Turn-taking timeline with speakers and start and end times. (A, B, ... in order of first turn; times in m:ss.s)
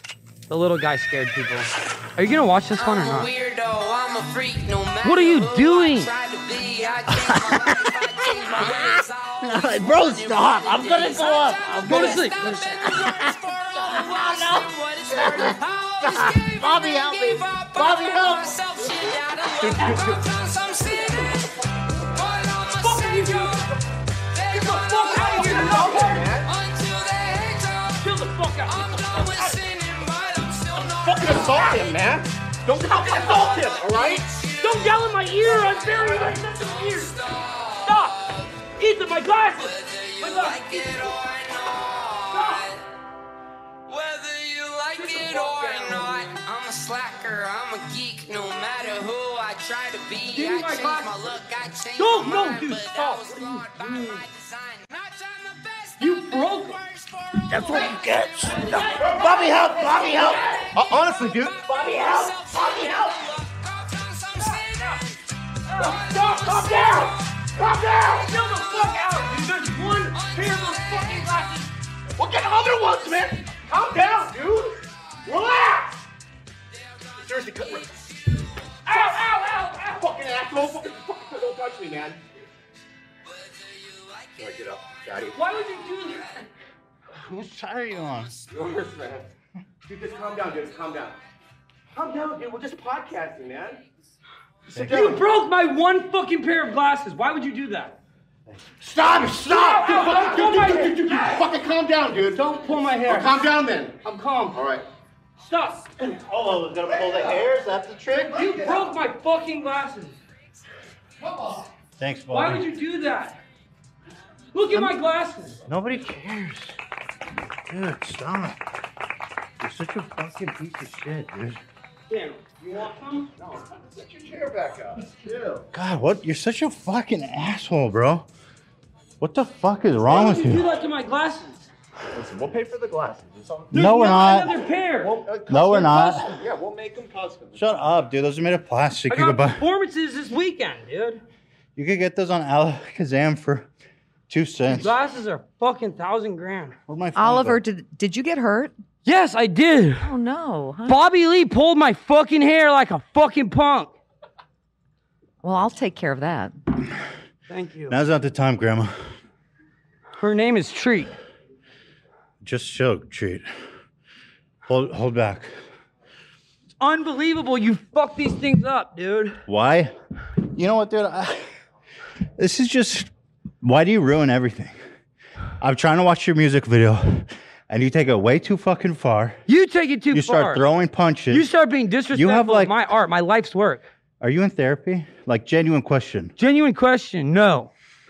0:00.5-0:03.3 A
0:02.8-0:21.5 B
0:05.0-0:06.1 A
0:07.1-0:18.6 C
0:11.8-0:13.0 A
0:19.7-0:20.1 C
0:22.1-0:23.7 B
0:22.7-0:23.6 A
0:24.3-0:32.0 B
0:24.5-0:26.3 A
0:25.3-0:26.5 D
0:28.0-0:29.5 A
0:30.7-0:34.3 D
0:32.9-0:38.7 B
0:34.6-0:37.1 A
0:35.5-0:36.4 D
0:37.8-0:38.2 A
0:38.8-0:40.9 A
0:39.2-0:42.8 B
0:42.3-0:42.7 A
0:43.9-0:57.7 B
0:45.0-0:46.3 A
0:50.3-0:51.2 A
0:52.0-0:54.2 A
0:56.0-0:56.8 A
0:57.5-1:01.1 C
0:58.4-0:58.8 B
0:58.8-0:59.3 A
0:59.0-0:59.2 D
1:00.8-1:02.6 D
1:00.9-1:05.2 B
1:01.8-1:02.1 C
1:02.7-1:03.1 C
1:05.7-1:07.0 B
1:05.8-1:06.9 A
1:06.2-1:08.3 D
1:08.2-1:11.7 A
1:08.8-1:09.2 B
1:10.0-1:11.4 B
1:12.2-1:16.0 D
1:17.2-1:18.0 D
1:18.9-1:19.3 A
1:18.9-1:22.2 D
1:23.5-1:24.3 B
1:24.3-1:25.4 D
1:25.3-1:26.4 A
1:27.2-1:28.3 C
1:28.5-1:29.3 D
1:29.8-1:31.2 D
1:31.9-1:33.8 D
1:34.7-1:35.2 D
1:34.8-1:38.0 A
1:38.8-1:44.0 D
1:39.5-1:41.4 A
1:42.3-1:43.4 A
1:44.0-1:44.6 A
1:44.5-1:44.8 D
1:45.4-1:45.9 A
1:46.2-1:48.5 C
1:46.9-1:47.4 D
1:48.3-1:48.9 D
1:48.3-1:50.2 A
1:51.2-1:51.6 D
1:52.0-1:52.6 C
1:52.3-1:53.4 A
1:54.5-1:55.6 A
1:55.7-1:56.8 C
1:57.7-1:58.6 C
1:59.6-2:01.6 C
2:02.1-2:03.6 A
2:03.7-2:05.7 D
2:05.7-2:08.3 C
2:09.2-2:10.7 C
2:10.0-2:11.6 A
2:12.1-2:13.8 D
2:13.7-2:14.5 C
2:13.7-2:15.2 A
2:15.0-2:17.9 D
2:15.5-2:16.3 C
2:17.5-2:19.6 C
2:19.1-2:21.2 A
2:21.8-2:23.7 C
2:24.3-2:24.9 C
2:24.7-2:26.7 A
2:26.9-2:27.6 C
2:27.1-2:28.7 E
2:29.0-2:30.1 A
2:30.0-2:31.0 E
2:30.8-2:33.9 A
2:35.4-2:36.6 E
2:37.5-2:38.0 A
2:37.9-2:38.9 C
2:40.2-2:41.1 A
2:42.4-2:43.5 C
2:44.7-2:45.5 C
2:46.8-2:49.4 A
2:49.5-2:49.9 C
2:50.5-2:51.4 C
2:52.4-2:53.1 C
2:53.6-2:54.7 C
2:55.6-2:59.4 C
2:59.5-3:00.6 A
3:00.1-3:01.5 C
3:01.3-3:03.9 A
3:02.1-3:02.7 C
3:04.2-3:06.3 C
3:06.4-3:07.7 A